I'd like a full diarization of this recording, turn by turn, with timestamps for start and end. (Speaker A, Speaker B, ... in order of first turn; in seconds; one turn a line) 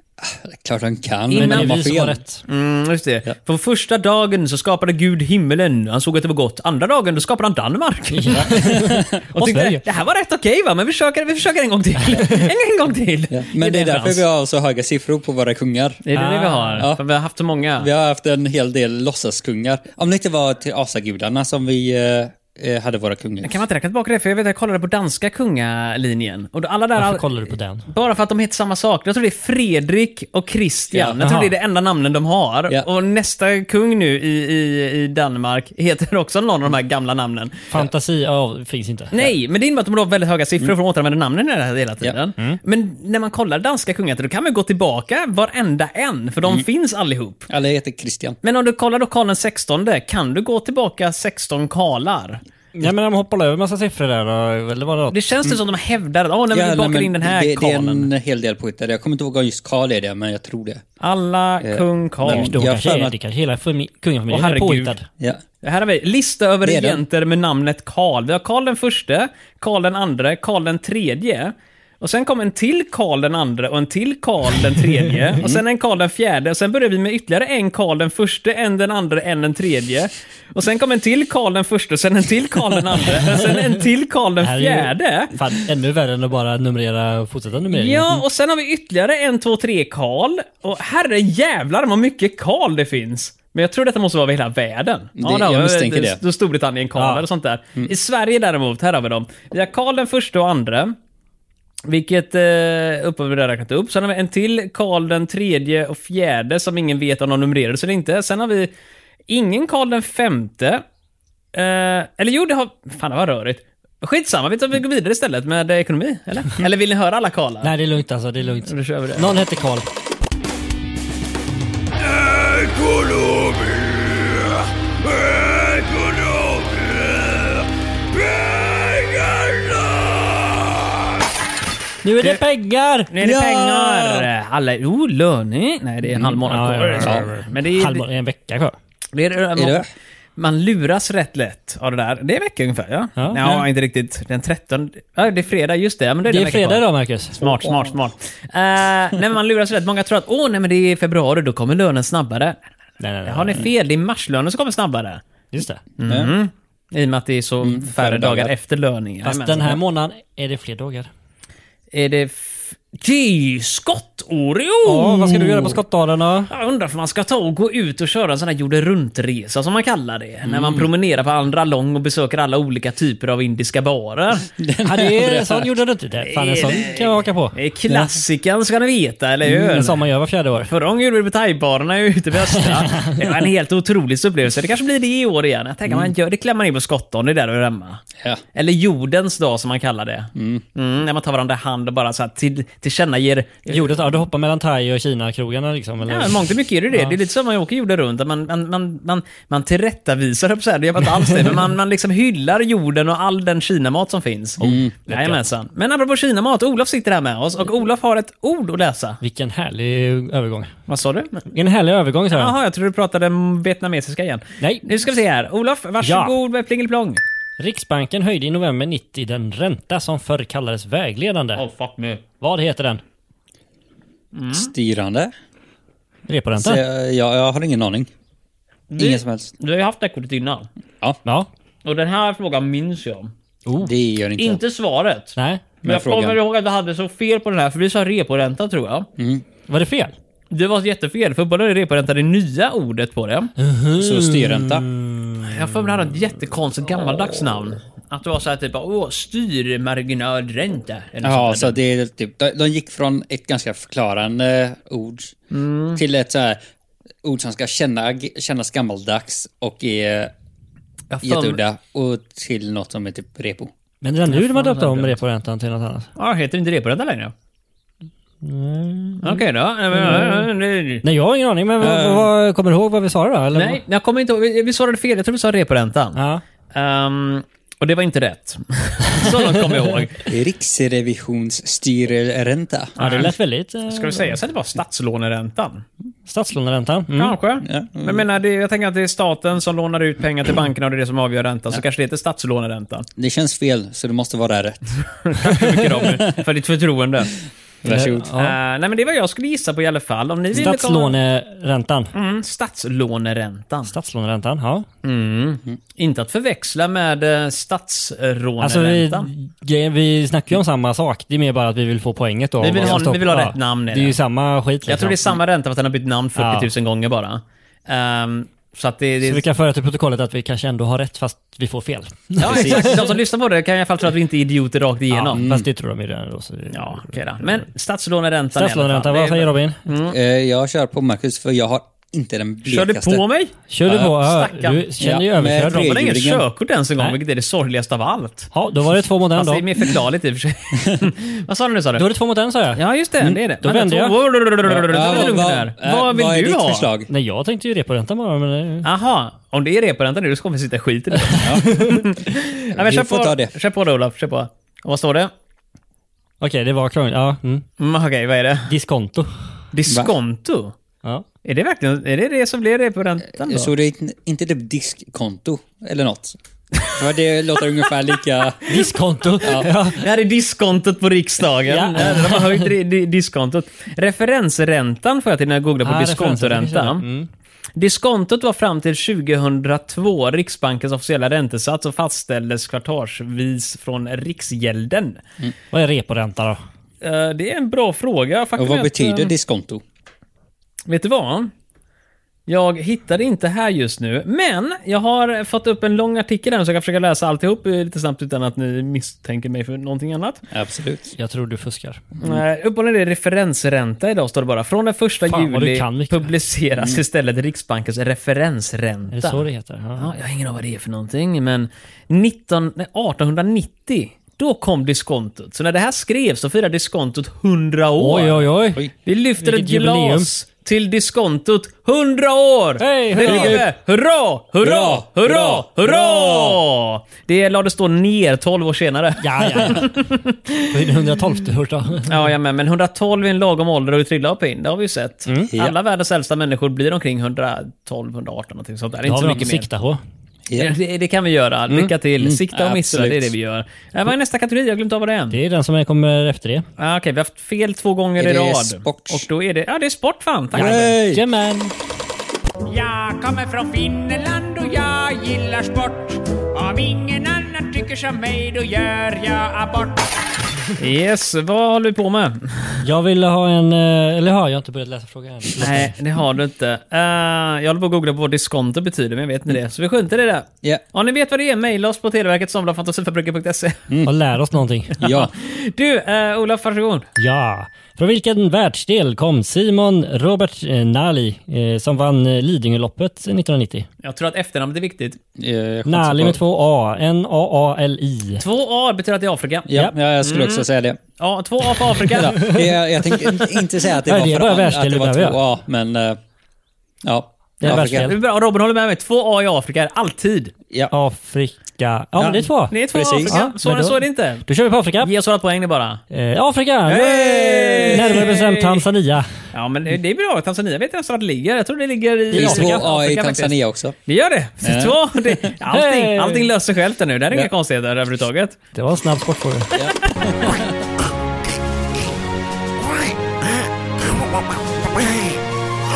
Speaker A: 0.2-2.2
Speaker B: 1.3-1.8
Speaker C: 1.3-2.4
Speaker B: 2.5-8.8
Speaker C: 8.1-9.8
Speaker A: 8.4-9.2
Speaker B: 9.3-14.2
Speaker A: 13.3-16.0
Speaker B: 16.1-17.9
Speaker C: 16.1-16.9
Speaker A: 17.8-23.6
Speaker B: 23.4-27.4
Speaker C: 26.9-27.9
Speaker B: 27.9-37.7
Speaker C: 31.1-31.5
Speaker C: 37.7-39.1
Speaker B: 39.1-47.5
Speaker A: 47.5-48.4
Speaker B: 48.4-52.4
Speaker C: 52.8-55.4
Speaker B: 55.1-58.1
Speaker A: 56.5-60.8
Speaker B: 61.0-62.6
Speaker A: 61.6-63.1
Speaker C: 62.3-65.1
Speaker B: 64.3-64.9
Speaker B: 65.6-85.3
Speaker A: 66.6-67.0
Speaker C: 84.4-88.2
Speaker B: 87.7-101.0
Speaker A: 95.2-96.2
Speaker C: 97.0-97.2
Speaker B: 101.9-108.7
Speaker B: 109.3-110.8
Speaker B: 111.5-117.7
Speaker C: 117.6-119.9
Speaker B: 118.7-119.3
Speaker B: 122.2-124.5
Speaker B: 125.1-127.3
Speaker B: 128.5-129.7
Speaker C: 132.0-133.1
Speaker B: 133.1-138.1
Speaker A: 133.2-134.3
Speaker A: 136.1-136.4
Speaker C: 136.4-138.8
Speaker A: 137.0-137.3
Speaker B: 139.1-139.9
Speaker A: 139.6-139.9
Speaker B: 140.4-152.6
Speaker C: 143.2-143.7
Speaker C: 146.3-147.4
Speaker A: 147.4-148.0
Speaker C: 153.0-153.7
Speaker B: 153.3-155.2
Speaker C: 155.5-155.8
Speaker B: 156.0-159.8
Speaker A: 156.1-156.3
Speaker A: 157.6-158.5
Speaker C: 159.2-161.1
Speaker B: 161.9-165.8
Speaker C: 164.8-166.5
Speaker B: 166.5-174.5
Speaker A: 170.4-170.9
Speaker A: 174.6-175.7
Speaker C: 174.8-177.6
Speaker B: 176.2-180.0
Speaker A: 177.9-178.2
Speaker C: 179.5-180.7
Speaker B: 180.7-194.0
Speaker C: 182.5-183.2
Speaker A: 190.3-190.6
Speaker C: 193.7-197.1
Speaker B: 196.1-209.2
Speaker A: 204.6-205.0
Speaker C: 204.7-205.4
Speaker C: 209.2-210.7
Speaker B: 210.9-211.4
Speaker C: 211.5-212.5
Speaker B: 212.3-217.2
Speaker C: 214.6-214.9
Speaker C: 216.0-216.3
Speaker C: 217.6-221.6
Speaker B: 221.6-222.2
Speaker C: 222.4-223.0
Speaker B: 224.3-224.7
Speaker A: 224.5-225.3
Speaker C: 226.3-226.8
Speaker A: 226.6-228.1
Speaker B: 228.9-230.7
Speaker A: 229.0-229.5
Speaker B: 231.8-233.3
Speaker C: 233.7-233.9
Speaker A: 233.8-234.6
Speaker B: 234.4-239.1
Speaker C: 235.4-235.6
Speaker A: 235.8-236.4
Speaker A: 239.2-239.4
Speaker C: 239.7-240.2
Speaker B: 240.5-243.5
Speaker C: 243.6-245.6
Speaker A: 244.0-244.9
Speaker B: 245.4-251.8
Speaker A: 251.2-255.4
Speaker B: 255.5-256.0
Speaker A: 255.9-256.6
Speaker A: 257.2-260.3
Speaker B: 261.1-261.6
Speaker A: 261.2-263.7
Speaker C: 264.0-266.1
Speaker B: 264.3-265.2
Speaker B: 266.2-267.3
Speaker C: 268.4-270.5
Speaker B: 269.2-271.0
Speaker C: 271.0-273.8
Speaker B: 271.8-272.2
Speaker B: 273.5-276.2
Speaker C: 276.2-276.4
Speaker B: 276.7-280.3
Speaker C: 279.2-279.5
Speaker A: 280.3-283.0
Speaker B: 283.0-283.3
Speaker C: 283.0-284.4
Speaker B: 283.9-285.9
Speaker C: 286.3-287.4
Speaker B: 287.1-293.1
Speaker A: 287.6-288.2
Speaker A: 293.2-295.0
Speaker B: 295.2-297.4
Speaker A: 295.5-296.1
Speaker A: 297.8-298.3
Speaker C: 297.9-298.6
Speaker B: 298.4-301.2
Speaker C: 300.5-302.1
Speaker B: 302.1-303.9
Speaker C: 303.9-304.9
Speaker B: 305.0-309.3
Speaker C: 308.6-315.3
Speaker B: 312.6-314.2
Speaker B: 314.9-319.4
Speaker C: 316.4-316.7
Speaker C: 319.2-323.0
Speaker B: 322.4-325.4
Speaker A: 322.4-323.1
Speaker C: 325.1-327.2
Speaker A: 325.3-325.7
Speaker B: 326.7-330.1
Speaker C: 328.5-329.8
Speaker A: 330.0-333.2
Speaker B: 332.7-334.9
Speaker C: 333.7-335.9
Speaker A: 333.9-334.1
Speaker A: 335.0-336.4
Speaker B: 335.6-338.5
Speaker C: 338.5-339.6
Speaker B: 339.4-342.1
Speaker C: 342.0-342.8
Speaker B: 342.8-346.9
Speaker C: 343.6-344.2
Speaker A: 344.7-347.1
Speaker C: 347.1-348.9
Speaker B: 348.8-355.3
Speaker C: 351.3-352.0
Speaker A: 351.4-351.8
Speaker A: 352.7-353.5
Speaker C: 356.4-357.6
Speaker B: 357.8-358.7
Speaker C: 358.7-359.3
Speaker B: 359.7-360.8
Speaker A: 359.9-360.1
Speaker B: 361.4-363.7
Speaker A: 363.4-366.4
Speaker A: 366.9-368.8
Speaker C: 368.7-370.0
Speaker A: 369.4-369.7
Speaker B: 369.9-377.1
Speaker C: 371.7-372.7
Speaker C: 375.8-377.3
Speaker B: 377.8-385.2
Speaker C: 385.7-386.6
Speaker B: 387.0-389.3
Speaker A: 388.6-389.8
Speaker B: 390.9-391.5
Speaker B: 392.5-400.4
Speaker A: 400.5-401.1
Speaker C: 401.2-402.1
Speaker B: 402.2-409.4
Speaker C: 405.3-406.3
Speaker C: 409.1-410.1
Speaker B: 410.0-418.5
Speaker C: 418.0-418.8
Speaker B: 419.1-430.9
Speaker C: 419.4-420.3
Speaker C: 422.8-423.6
Speaker A: 423.2-423.7
Speaker A: 424.6-426.6
Speaker C: 429.2-429.9
Speaker C: 430.7-432.2
Speaker B: 432.1-439.7
Speaker C: 435.3-435.5
Speaker C: 439.1-440.0
Speaker A: 440.5-440.7
Speaker B: 440.6-445.4
Speaker A: 441.7-443.3
Speaker C: 445.3-446.6
Speaker B: 446.8-450.9
Speaker A: 448.2-449.2
Speaker A: 450.5-451.2
Speaker C: 450.5-451.7
Speaker D: 452.7-460.1
Speaker B: 452.8-455.9
Speaker B: 456.6-459.7
Speaker B: 460.8-462.8
Speaker C: 462.8-465.9
Speaker B: 465.6-473.9
Speaker C: 474.1-475.2
Speaker A: 475.0-475.3
Speaker B: 475.0-477.1
Speaker C: 477.2-483.9
Speaker B: 484.0-485.2
Speaker A: 485.4-486.4
Speaker C: 485.9-488.4
Speaker B: 488.4-490.7
Speaker A: 489.7-491.0
Speaker B: 491.2-493.4
Speaker A: 492.1-496.2
Speaker C: 492.4-492.6
Speaker C: 494.0-495.4
Speaker A: 497.0-498.1
Speaker C: 497.6-498.2
Speaker B: 497.7-500.5
Speaker C: 500.9-505.1
Speaker A: 502.2-503.4
Speaker B: 502.7-504.5
Speaker B: 505.0-506.0
Speaker C: 506.1-509.3
Speaker B: 506.9-508.8
Speaker A: 506.9-508.3
Speaker B: 509.5-513.5
Speaker A: 512.3-514.0
Speaker C: 512.3-512.9
Speaker B: 514.1-518.6
Speaker A: 514.6-515.5
Speaker C: 515.7-516.5
Speaker C: 518.7-519.8
Speaker A: 519.7-520.8